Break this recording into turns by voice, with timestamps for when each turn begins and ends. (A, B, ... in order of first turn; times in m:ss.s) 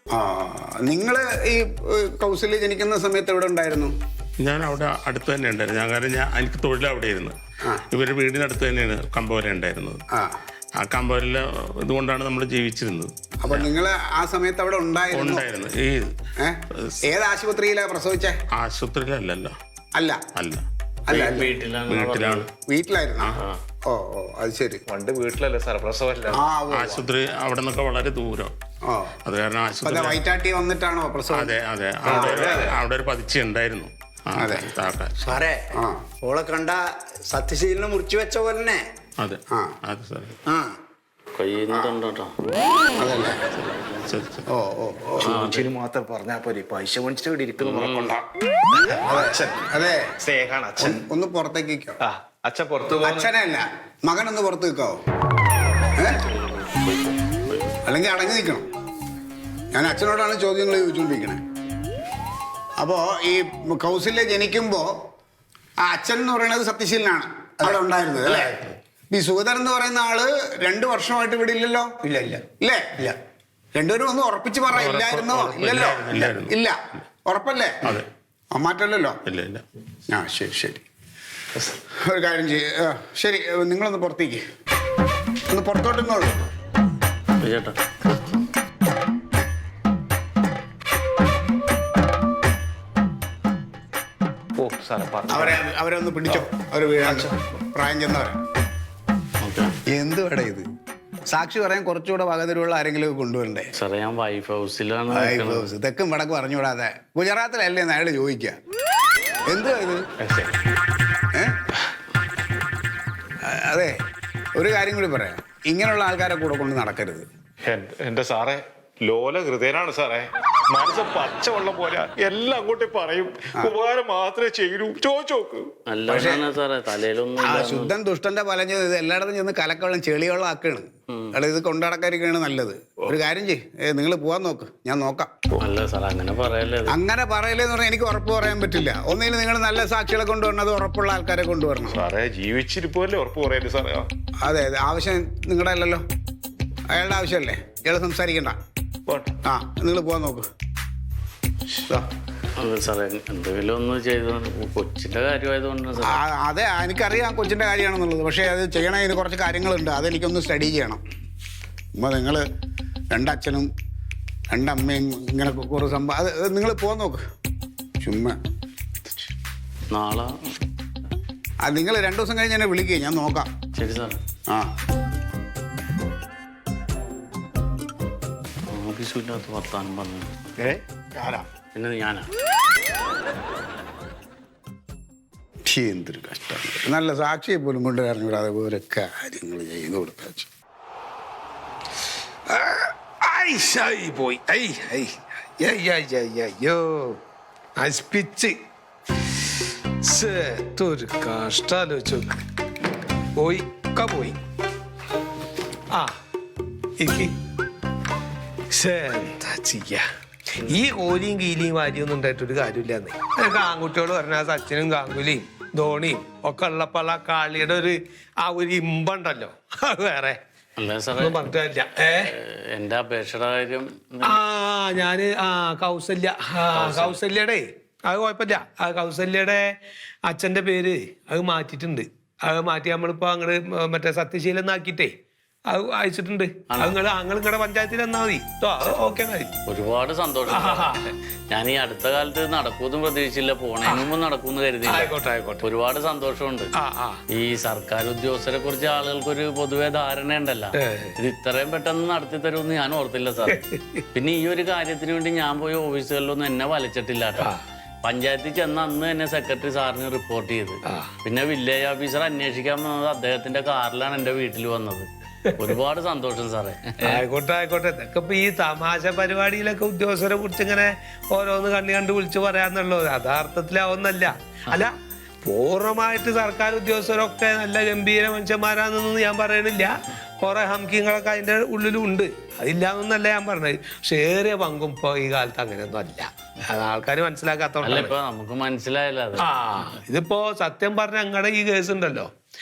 0:00.1-0:03.9 A
0:04.4-0:07.4 B
0:07.9-0:10.0 B
0:10.8-0:13.7 B
0:13.4-0:15.4 A
0:15.1-0:16.1 B
0:16.4-0:18.3 A
0:16.7-0:17.0 B
0:18.5-0:19.5 B
0:20.3-0:20.6 B
0:21.1-0:21.5 A
0:21.1-0:22.4 C
0:21.9-0:22.5 B
0:22.7-0:23.3 A
0:23.8-0:24.8 A
0:24.9-0:26.4 D
0:26.3-0:27.0 A
0:26.7-0:28.5 B
0:28.8-0:29.1 A
0:29.2-0:30.2 B
0:29.8-0:32.7 A
0:31.3-0:35.1 B
0:32.4-0:32.7 D
0:34.4-0:34.7 A
0:35.2-0:38.8 E
0:35.7-0:36.1 A
0:39.2-0:40.4 B
0:41.3-0:42.3 C
0:43.0-0:43.4 A
0:44.0-0:44.4 B
0:44.5-0:45.3 A
0:45.2-0:45.7 C
0:45.2-0:49.6 D
0:47.6-0:48.2 C
0:49.0-0:50.0 A
0:50.2-0:51.0 D
0:50.8-0:52.0 A
0:52.0-0:53.3 D
0:53.0-0:55.0 A
0:56.0-0:56.2 A
0:57.8-0:58.6 A
0:59.7-1:01.4 A
1:02.8-1:04.9 A
1:05.8-1:08.6 A
1:08.3-1:08.8 B
1:09.1-1:13.2 A
1:13.8-1:18.0 A
1:14.7-1:16.5 B
1:18.5-1:19.2 A
1:19.2-1:19.6 B
1:20.1-1:20.8 A
1:21.7-1:24.4 A
1:25.5-1:26.4 A
1:27.4-1:27.8 C
1:34.6-1:35.6 D
1:35.3-1:38.4 A
1:37.0-1:37.3 D
1:39.4-1:39.7 C
1:39.9-1:40.6 A
1:41.3-1:43.7 A
1:43.7-1:45.7 C
1:45.1-1:48.6 A
1:49.5-1:50.0 A
1:50.2-1:50.5 D
1:53.4-1:54.0 A
1:54.5-1:57.2 A
1:57.6-2:05.7 D
2:05.9-2:07.9 C
2:06.1-2:06.4 A
2:07.4-2:15.4 A
2:15.6-2:17.0 C
2:16.9-2:22.0 A
2:21.9-2:24.1 D
2:24.4-2:26.0 A
2:26.9-2:28.6 A
2:29.1-2:29.3 D
2:29.4-2:30.5 A
2:32.6-2:36.2 C
2:36.0-2:41.0 A
2:42.0-2:42.4 A
2:43.1-2:43.7 A
2:44.5-2:47.2 A
2:48.0-2:48.4 A
2:49.9-2:50.4 C
2:51.6-2:53.5 A
2:53.7-2:54.2 C
2:58.7-3:00.3 C
3:00.6-3:01.4 A
3:01.7-3:02.3 C
3:05.7-3:10.5 A
3:12.8-3:17.2 F
3:17.8-3:18.5 F
3:20.1-3:22.4 F
3:23.4-3:24.4 F
3:27.0-3:27.3 F
3:28.7-3:30.0 F
3:30.6-3:40.4 F
3:40.8-3:41.4 C
3:41.2-3:42.3 F
3:42.2-3:44.4 C
3:44.3-3:49.6 F
3:46.7-3:47.2 C
3:50.3-3:55.1 F
3:55.7-3:59.5 F
3:59.6-4:05.1 C
4:00.5-4:01.1 F
4:04.9-4:05.6 F
4:05.6-4:06.7 C
4:06.8-4:07.2 F
4:07.3-4:13.6 C
4:10.8-4:11.1 F
4:14.1-4:17.5 C
4:18.0-4:25.1 C
4:25.6-4:27.2 C
4:27.1-4:34.9 F
4:35.4-4:48.1 F
4:47.8-4:49.4 C
4:49.4-4:52.3 F